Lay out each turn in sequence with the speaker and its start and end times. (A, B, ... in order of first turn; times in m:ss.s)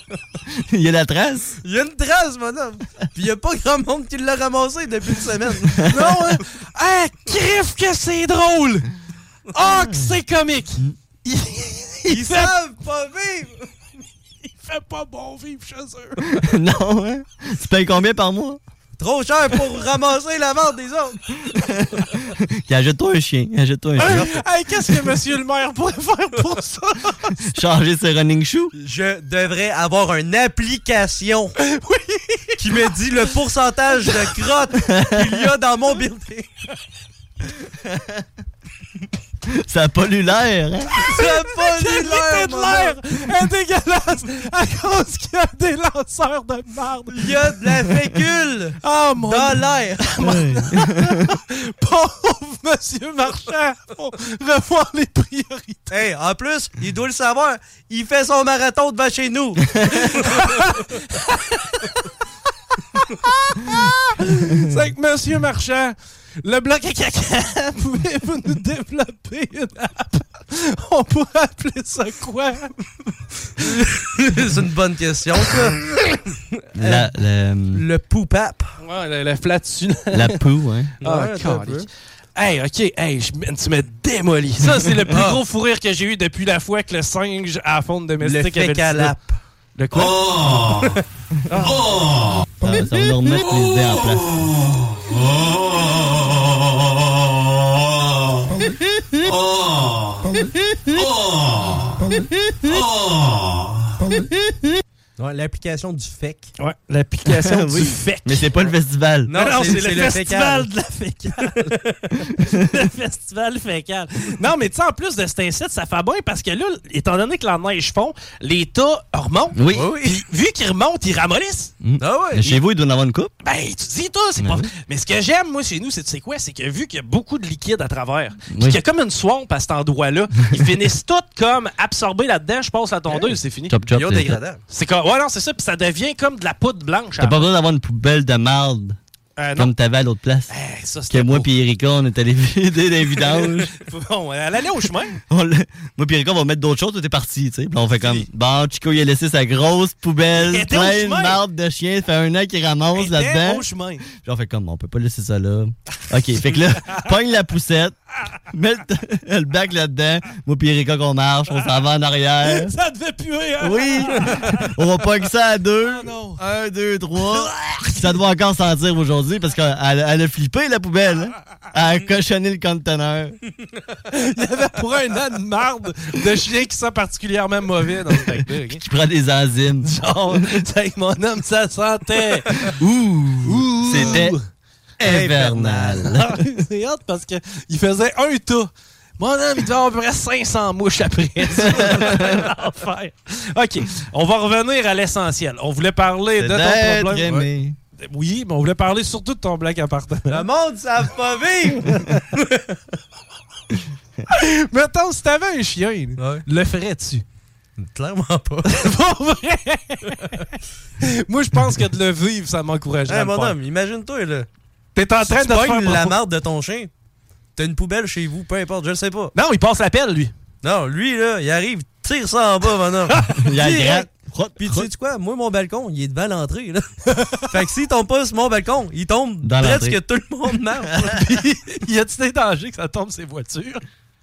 0:00.6-0:01.5 A
0:01.6-0:06.0 B
0:05.8-0:08.8 C
0:09.5-0:12.5 C
0:09.8-0:10.0 A
0:12.1-0:13.7 B
0:14.4-0:16.4 C
0:16.3-0:18.6 A
0:19.0-0:21.3 B
0:21.6-0:24.4 A
0:24.0-0:27.3 C
0:24.0-0:24.2 B
0:27.5-0:28.7 A
0:28.7-0:31.5 B
0:31.6-0:32.9 C
0:32.6-0:36.5 B
0:34.8-0:35.4 A
0:39.5-0:41.0 A
0:41.0-0:43.0 B
0:41.1-0:47.7 C
0:47.1-0:50.1 B
0:48.8-0:55.9 C
0:50.2-0:51.3 A
0:55.9-0:59.6 B
0:59.9-1:02.0 C
1:03.0-1:12.7 C
1:13.8-1:15.8 B
1:16.8-1:17.8 A
1:16.8-1:17.1 B
1:17.7-1:18.7 B
1:18.8-1:20.4 C
1:20.1-1:20.9 A
1:21.0-1:21.9 B
1:21.0-1:29.1 C
1:25.1-1:25.4 B
1:28.2-1:29.3 B
1:29.8-1:30.3 C
1:30.6-1:30.9 B
1:32.6-1:34.4 A
1:45.2-1:46.5 B
1:46.6-1:48.6 C
1:47.2-1:49.3 A
1:49.2-1:50.7 B
1:49.3-1:51.6 C
1:51.5-1:52.0 B
1:52.5-2:01.7 C
1:59.5-1:59.9 A
1:59.7-2:00.2 B
2:01.8-2:03.3 A
2:02.0-2:02.6 B
2:03.4-2:13.9 C
2:04.4-2:04.7 A
2:08.5-2:08.8 A
2:13.7-2:14.4 A
2:13.9-2:14.6 B
2:14.7-2:17.4 C
2:17.2-2:19.0 A
2:19.4-2:19.7 C
2:19.6-2:20.5 A
2:20.5-2:21.5 C
2:21.1-2:23.7 A
2:23.2-2:25.2 C
2:25.3-2:37.9 A
2:28.0-2:28.2 C
2:30.4-2:31.4 C
2:32.9-2:34.0 C
2:38.5-2:42.7 A
2:42.4-2:44.6 C
2:43.6-2:53.4 A
2:45.8-2:46.4 C
2:47.3-2:48.1 C
2:54.1-2:58.8 C
2:58.2-3:00.5 A
2:59.8-3:02.7 C
3:02.7-3:04.3 A
3:03.4-3:04.4 C
3:04.0-3:04.2 B
3:05.0-3:06.4 A
3:05.0-3:06.0 B
3:06.1-3:17.4 C
3:11.6-3:12.4 A
3:11.6-3:12.0 B
3:16.4-3:17.8 A
3:18.0-3:20.4 C
3:20.3-3:22.8 B
3:21.8-3:22.2 C
3:24.3-3:27.2 C
3:26.2-3:26.4 B
3:27.8-3:28.9 B
3:28.6-3:30.4 C
3:31.0-3:33.6 C
3:33.1-3:34.5 B
3:34.9-3:36.2 C
3:35.2-3:36.9 B
3:37.6-3:39.3 B
3:39.3-3:40.3 C
3:40.6-3:46.8 B
3:43.1-3:43.4 C
3:43.3-3:44.9 A
3:47.2-3:47.4 C
3:47.5-3:51.2 B
3:49.4-3:50.0 A
3:51.0-3:53.8 C